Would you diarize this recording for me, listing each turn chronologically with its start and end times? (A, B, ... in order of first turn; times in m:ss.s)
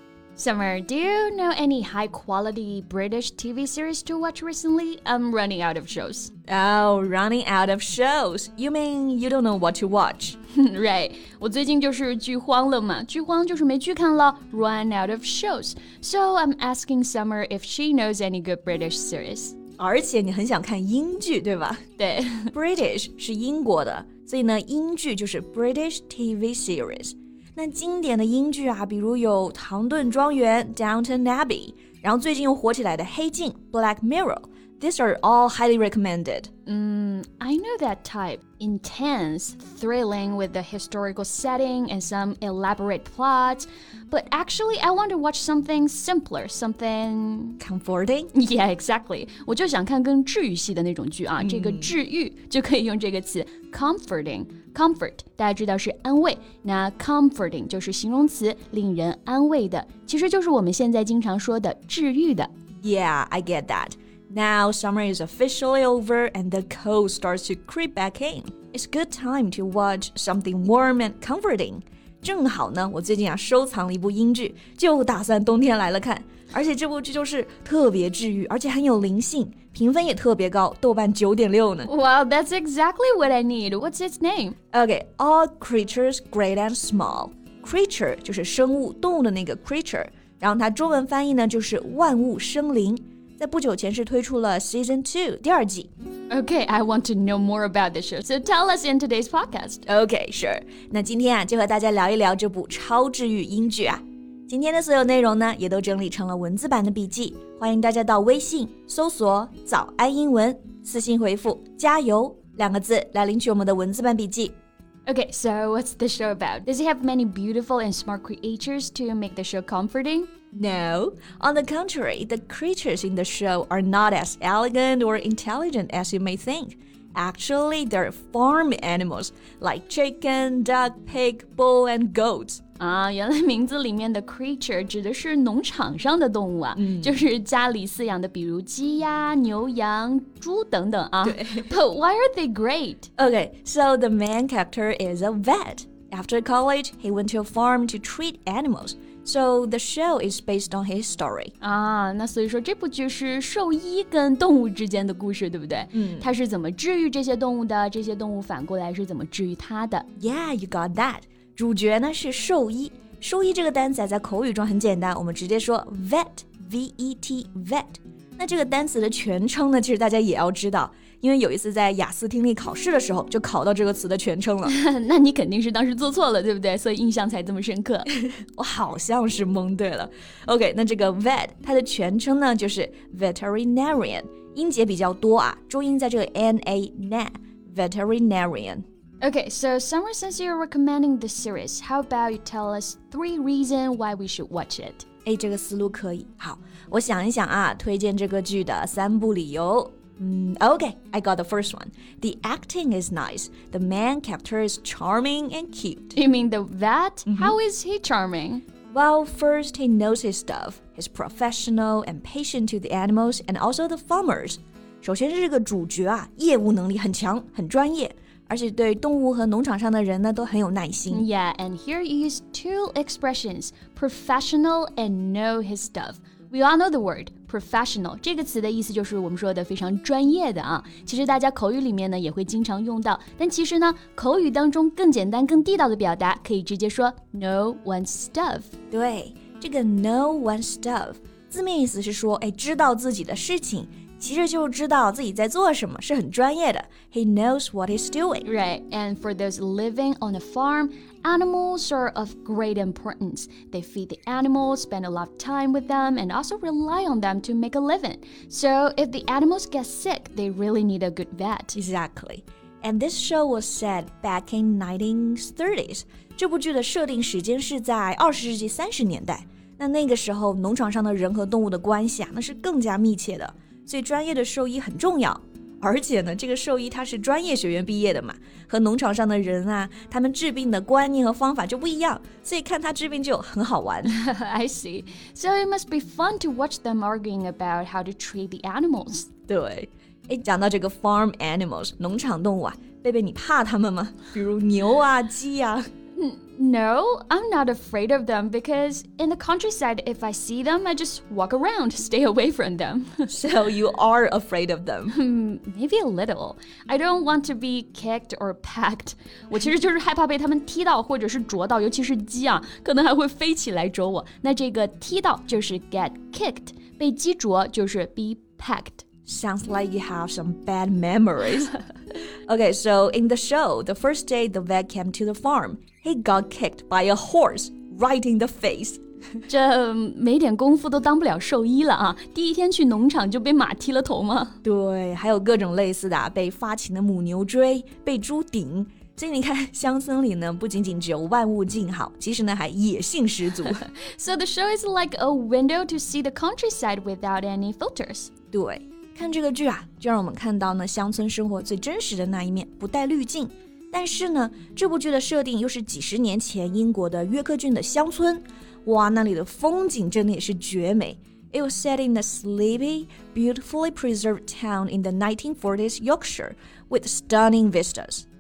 0:00.4-0:06.3 A
0:06.5-0:10.4 B
0:10.5-0:19.6 A
0:19.8-0:21.8 B
0:22.0-0:22.5 A
0:22.5-0:36.5 B
0:36.7-0:47.6 A
0:47.6-0:48.3 B
0:48.3-1:02.5 A
0:51.4-0:51.9 B
1:02.8-1:21.9 B
1:21.9-1:24.6 A
1:24.7-1:35.9 B
1:36.3-1:39.8 A
1:39.9-1:54.5 B
1:55.1-2:00.3 A
2:00.5-2:12.6 B
2:12.8-2:23.1 A
2:16.8-2:17.2 B
2:21.2-2:21.7 B
2:23.2-2:31.5 B
2:31.6-2:40.1 A
2:35.9-2:36.3 B
2:40.2-2:54.7 B
2:54.7-2:58.1 A
2:58.4-3:08.8 B
3:09.2-3:15.1 A
3:15.3-3:26.2 B
3:26.2-3:28.6 A
3:27.3-3:27.6 B
3:28.9-3:41.3 B
3:41.1-3:58.7 A
3:58.9-4:08.5 B
4:08.4-4:21.8 A
4:21.7-4:44.1 B
4:44.0-4:49.3 A
4:49.5-4:55.8 B
4:56.2-5:03.3 A
5:03.3-5:05.2 B
5:05.1-5:19.0 A
5:19.3-5:21.7 B
5:22.5-5:29.0 B
5:29.5-5:34.6 A
5:34.6-5:43.8 B
5:43.7-5:48.3 A
5:48.5-6:08.2 B